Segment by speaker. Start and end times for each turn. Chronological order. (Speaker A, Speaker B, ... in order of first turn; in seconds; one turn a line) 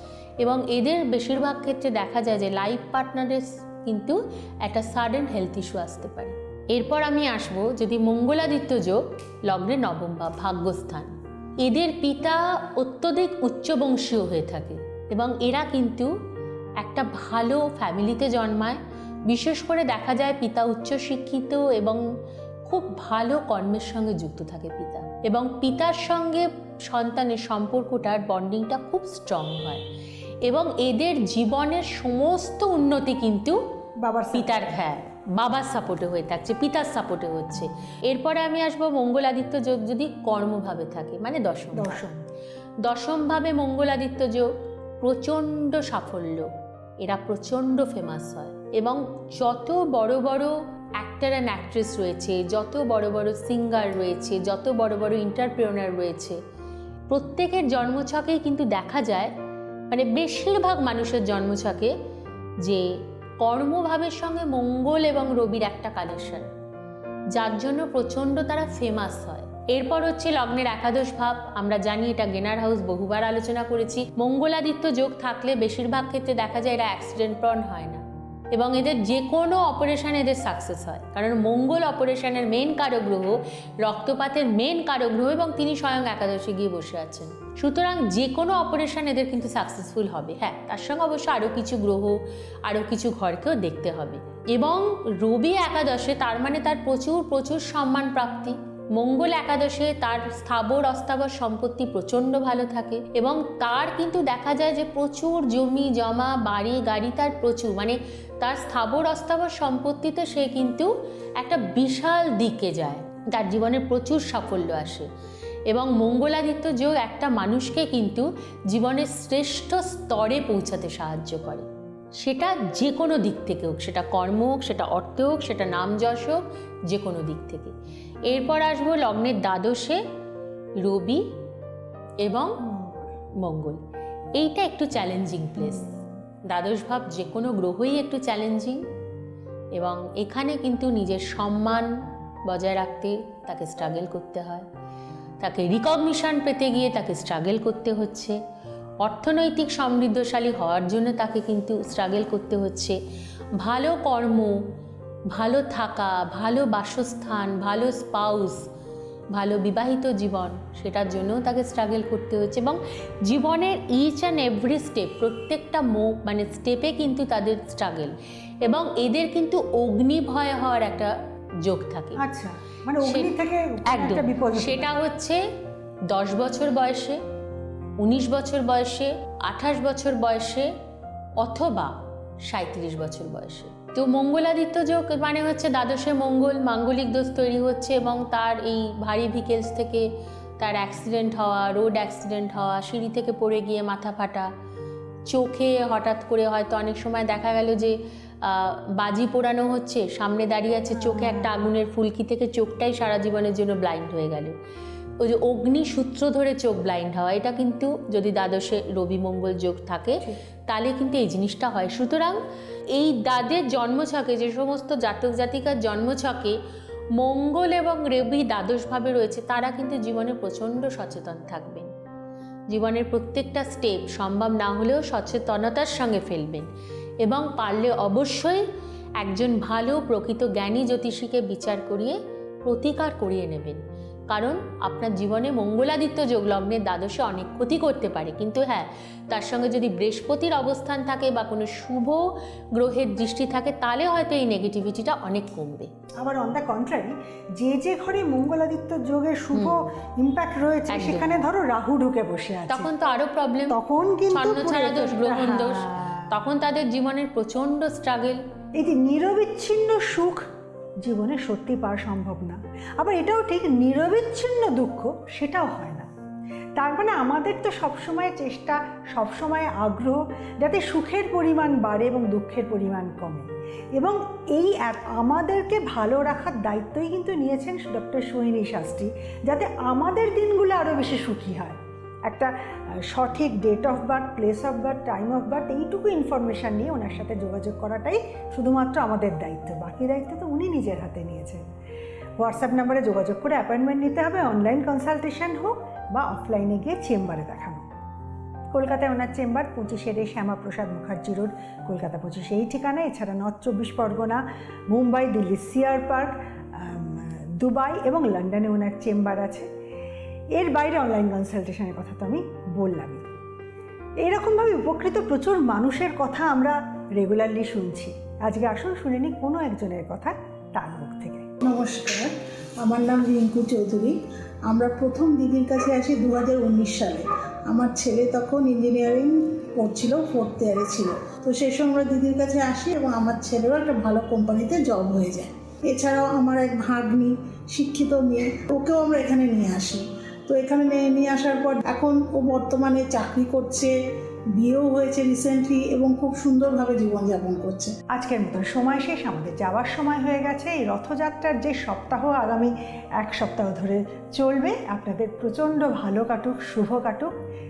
Speaker A: 0.4-16.1
Speaker A: 16.8-22.0
Speaker A: 22.6-29.8
Speaker A: 30.4-33.6
Speaker B: 34.0-34.8
Speaker A: 34.3-42.0
Speaker B: 41.7-42.2
Speaker A: 42.8-46.5
Speaker A: 47.0-56.4
Speaker A: 57.1-59.3
Speaker A: 59.9-61.9
Speaker A: 62.6-62.9
Speaker A: 63.4-66.5
Speaker A: 67.3-115.1
Speaker A: 115.7-121.7
Speaker A: 122.2-127.7
Speaker A: 128.3-130.0
Speaker A: 130.8-131.2
Speaker A: 132.2-132.6
Speaker B: 132.6-133.0
Speaker A: 133.4-133.8
Speaker A: 134.3-135.9
Speaker B: 135.6-136.0
Speaker A: 136.5-138.8
Speaker A: 139.7-141.9
Speaker A: 142.4-144.7
Speaker A: 145.4-148.4
Speaker A: 149.0-153.0
Speaker A: 153.6-154.6
Speaker A: 155.3-158.6
Speaker A: 159.3-172.2
Speaker B: 172.2-174.9
Speaker A: 173.0-173.3
Speaker A: 173.9-175.4
Speaker A: 176.1-177.2
Speaker A: 178.0-180.7
Speaker A: 181.4-190.1
Speaker A: 190.6-194.5
Speaker A: 195.3-204.6
Speaker B: 200.9-201.7
Speaker A: 205.2-212.4
Speaker A: 212.9-216.6
Speaker A: 217.1-221.9
Speaker A: 222.7-226.7
Speaker A: 227.2-228.6
Speaker A: 229.2-245.9
Speaker B: 246.2-252.9
Speaker A: 249.5-249.8
Speaker A: 250.9-251.3
Speaker A: 252.7-253.8
Speaker B: 253.7-256.3
Speaker A: 254.3-258.4
Speaker B: 258.8-260.4
Speaker B: 261.0-266.1
Speaker B: 266.8-281.8
Speaker B: 283.1-291.6
Speaker B: 292.4-297.9
Speaker B: 298.7-309.6
Speaker B: 310.6-313.2
Speaker B: 314.2-321.4
Speaker C: 321.6-324.2
Speaker C: 324.7-343.9
Speaker C: 344.5-347.9
Speaker B: 348.1-357.3